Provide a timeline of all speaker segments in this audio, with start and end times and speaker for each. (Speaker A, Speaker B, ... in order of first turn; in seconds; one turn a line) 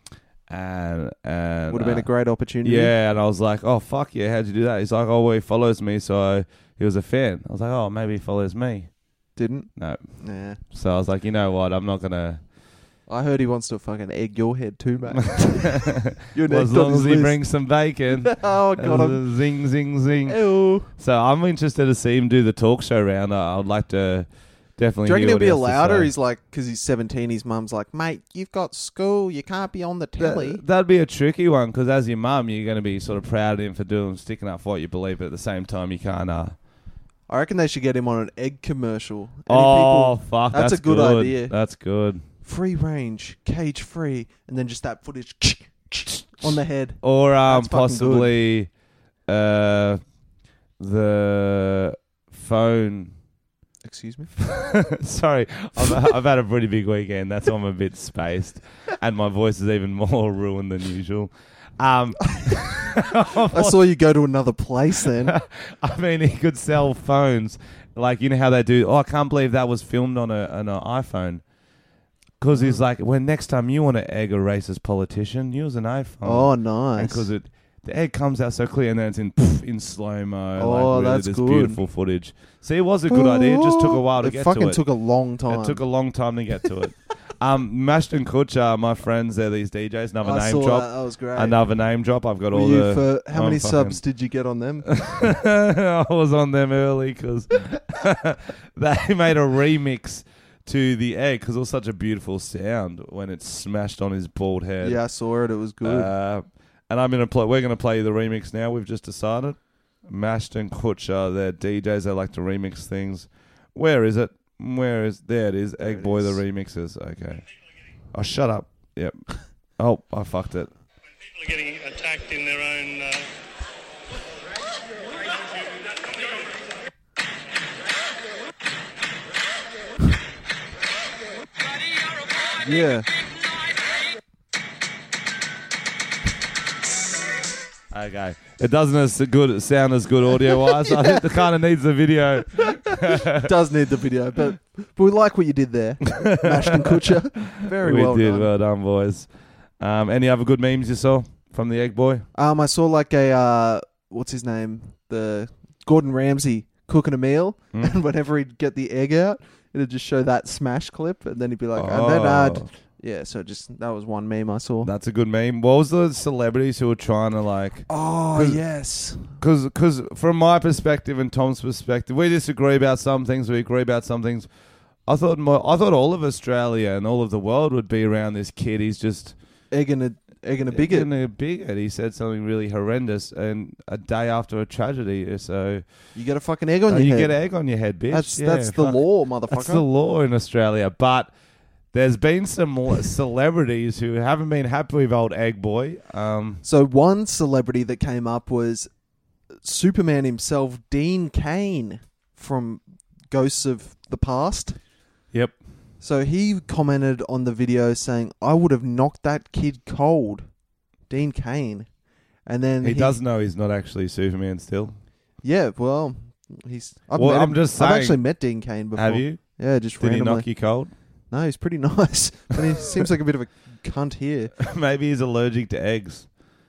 Speaker A: 0.5-2.1
Speaker B: 1.7-2.9
Speaker A: 2.6-8.9
Speaker B: 9.3-9.7
Speaker A: 9.8-10.0
Speaker B: 10.2-10.6
Speaker A: 10.7-12.4
Speaker B: 13.1-17.4
Speaker A: 15.1-26.1
Speaker B: 18.2-19.2
Speaker B: 20.3-20.9
Speaker B: 25.1-30.6
Speaker A: 30.2-36.5
Speaker B: 37.3-41.5
Speaker A: 39.5-42.2
Speaker B: 42.4-48.3
Speaker A: 46.4-48.7
Speaker A: 49.3-50.0
Speaker A: 50.8-53.1
Speaker B: 53.8-54.3
Speaker A: 54.4-63.8
Speaker B: 63.5-65.3
Speaker A: 65.2-71.4
Speaker A: 72.4-84.8
Speaker B: 72.5-72.8
Speaker B: 76.2-77.3
Speaker B: 80.6-81.8
Speaker B: 83.1-85.8
Speaker A: 85.5-94.0
Speaker B: 90.2-91.6
Speaker B: 92.5-94.9
Speaker A: 94.8-105.0
Speaker B: 104.8-106.1
Speaker A: 105.8-117.4
Speaker B: 115.8-116.4
Speaker A: 118.1-119.2
Speaker A: 119.8-120.7
Speaker C: 121.3-123.3
Speaker B: 132.6-133.1
Speaker A: 137.9-143.5
Speaker B: 140.8-141.2
Speaker B: 142.6-148.5
Speaker A: 146.1-152.2
Speaker B: 152.3-164.9
Speaker A: 161.7-162.7
Speaker A: 164.8-168.6
Speaker B: 167.9-169.4
Speaker A: 169.4-174.5
Speaker A: 175.1-179.3
Speaker B: 179.7-181.1
Speaker A: 180.7-185.8
Speaker B: 186.1-187.3
Speaker A: 186.9-191.3
Speaker B: 188.1-189.8
Speaker A: 191.9-196.6
Speaker B: 196.6-198.9
Speaker B: 199.6-204.8
Speaker B: 206.0-210.4
Speaker B: 211.1-211.9
Speaker B: 212.4-213.2
Speaker A: 212.8-215.0
Speaker B: 215.4-220.5
Speaker A: 217.1-218.2
Speaker A: 218.9-219.4
Speaker A: 220.0-220.9
Speaker B: 221.3-224.5
Speaker A: 224.6-226.3